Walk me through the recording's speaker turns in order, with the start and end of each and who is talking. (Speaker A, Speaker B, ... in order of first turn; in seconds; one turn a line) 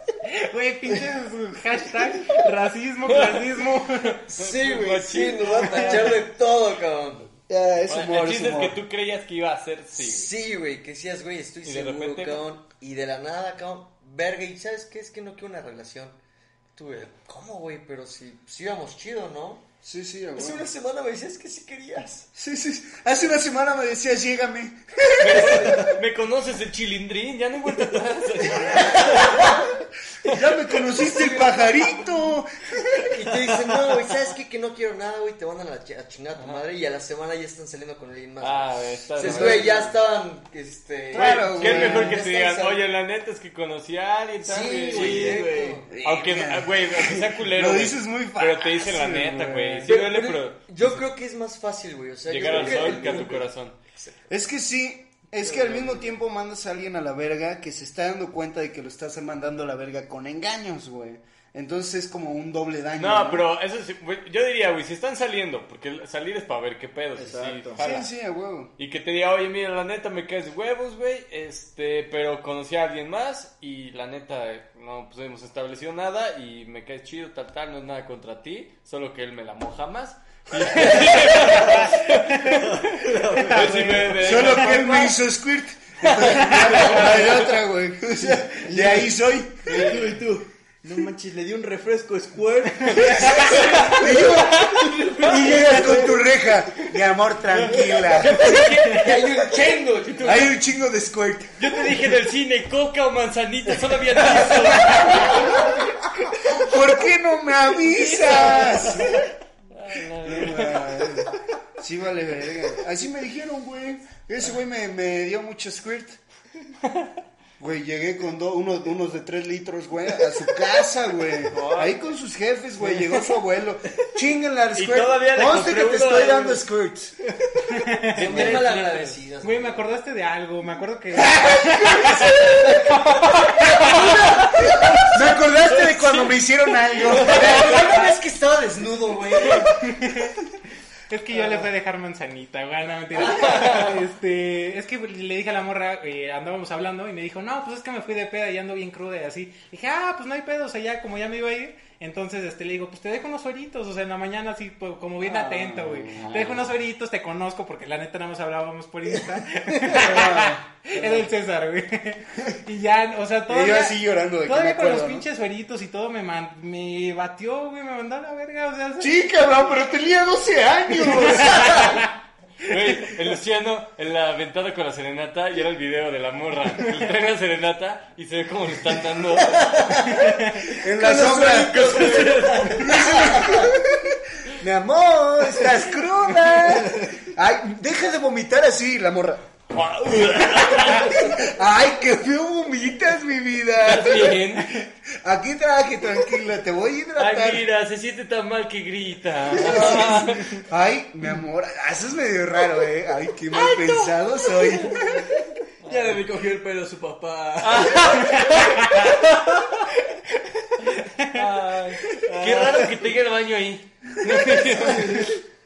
Speaker A: 0.2-4.2
Speaker B: 3.1-3.5
Speaker B: 4.0-6.3
Speaker C: 4.3-7.3
Speaker D: 7.5-8.8
Speaker B: 7.9-10.3
Speaker C: 9.9-16.2
Speaker B: 11.6-12.4
Speaker C: 16.8-19.7
Speaker D: 19.8-20.7
Speaker C: 20.4-22.3
Speaker D: 22.4-25.9
Speaker B: 25.2-29.6
Speaker C: 25.3-25.9
Speaker C: 28.7-29.6
Speaker D: 30.2-33.1
Speaker C: 30.8-32.1
Speaker C: 33.1-42.8
Speaker B: 36.4-36.6
Speaker B: 38.4-39.9
Speaker D: 39.2-39.8
Speaker D: 41.1-42.2
Speaker B: 41.1-45.5
Speaker C: 44.4-45.9
Speaker E: 44.9-45.9
Speaker D: 45.9-49.9
Speaker B: 46.0-51.0
Speaker C: 49.9-54.2
Speaker B: 52.3-53.8
Speaker E: 52.4-53.4
Speaker D: 54.3-63.5
Speaker C: 55.4-56.2
Speaker B: 63.0-68.1
Speaker E: 67.1-67.9
Speaker D: 67.8-68.7
Speaker B: 68.8-85.2
Speaker E: 80.7-84.8
Speaker A: 83.4-84.1
Speaker D: 84.2-89.8
Speaker B: 86.0-87.5
Speaker E: 88.2-89.1
Speaker B: 89.7-90.2
Speaker E: 89.7-94.3
Speaker B: 93.1-96.0
Speaker D: 93.9-98.6
Speaker B: 97.5-100.5
Speaker C: 98.3-100.5
Speaker D: 100.2-101.8
Speaker B: 101.6-105.7
Speaker C: 104.3-105.8
Speaker D: 106.5-109.3
Speaker B: 108.0-109.1
Speaker B: 109.7-111.1
Speaker D: 110.2-116.2
Speaker D: 117.6-127.2
Speaker B: 121.5-122.0
Speaker B: 124.8-126.6
Speaker A: 127.7-128.2
Speaker B: 128.1-129.2
Speaker C: 128.1-129.8
Speaker A: 129.4-133.7
Speaker D: 131.2-132.3
Speaker C: 132.3-136.1
Speaker D: 135.1-137.8
Speaker C: 137.0-139.9
Speaker B: 137.3-137.8
Speaker A: 139.9-140.3
Speaker A: 141.1-169.2
Speaker B: 143.3-143.9
Speaker D: 155.3-156.6
Speaker D: 159.9-161.2
Speaker D: 163.5-165.3
Speaker D: 169.0-172.1
Speaker B: 172.6-179.9
Speaker C: 179.7-180.3
Speaker D: 180.7-181.9
Speaker C: 180.8-183.7
Speaker B: 181.5-183.3
Speaker E: 182.2-182.8
Speaker D: 182.7-189.5
Speaker E: 186.8-187.2
Speaker B: 189.7-191.4
Speaker D: 190.1-197.7
Speaker B: 193.8-194.8
Speaker B: 197.2-200.7
Speaker D: 199.5-205.4
Speaker B: 203.5-205.0
Speaker E: 205.8-208.9
Speaker B: 205.9-206.2
Speaker B: 207.6-209.8
Speaker A: 211.0-211.4
Speaker B: 211.2-215.3
Speaker E: 212.1-213.1
Speaker E: 214.8-215.3